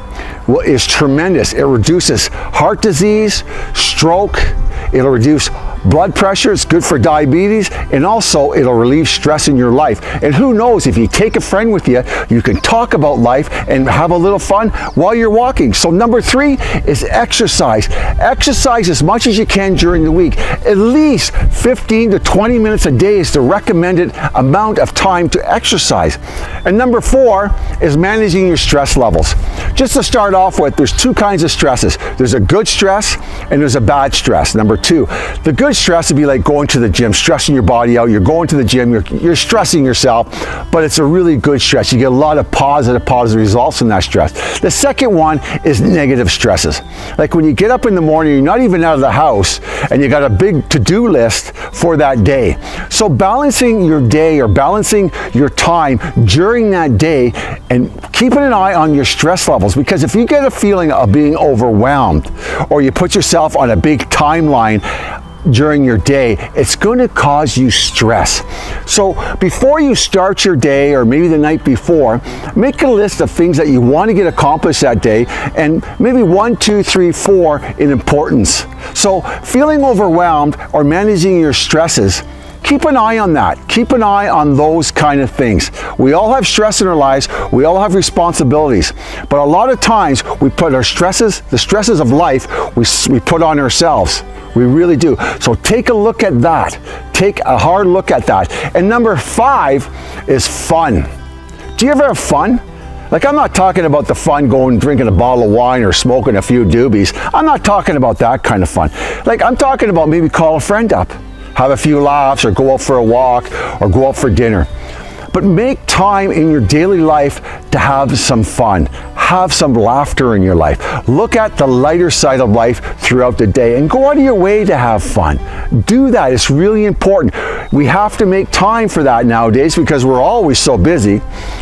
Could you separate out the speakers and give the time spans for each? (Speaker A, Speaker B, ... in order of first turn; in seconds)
Speaker A: 0.5-64.8, 65.4-101.1, 101.8-114.7, 115.3-131.2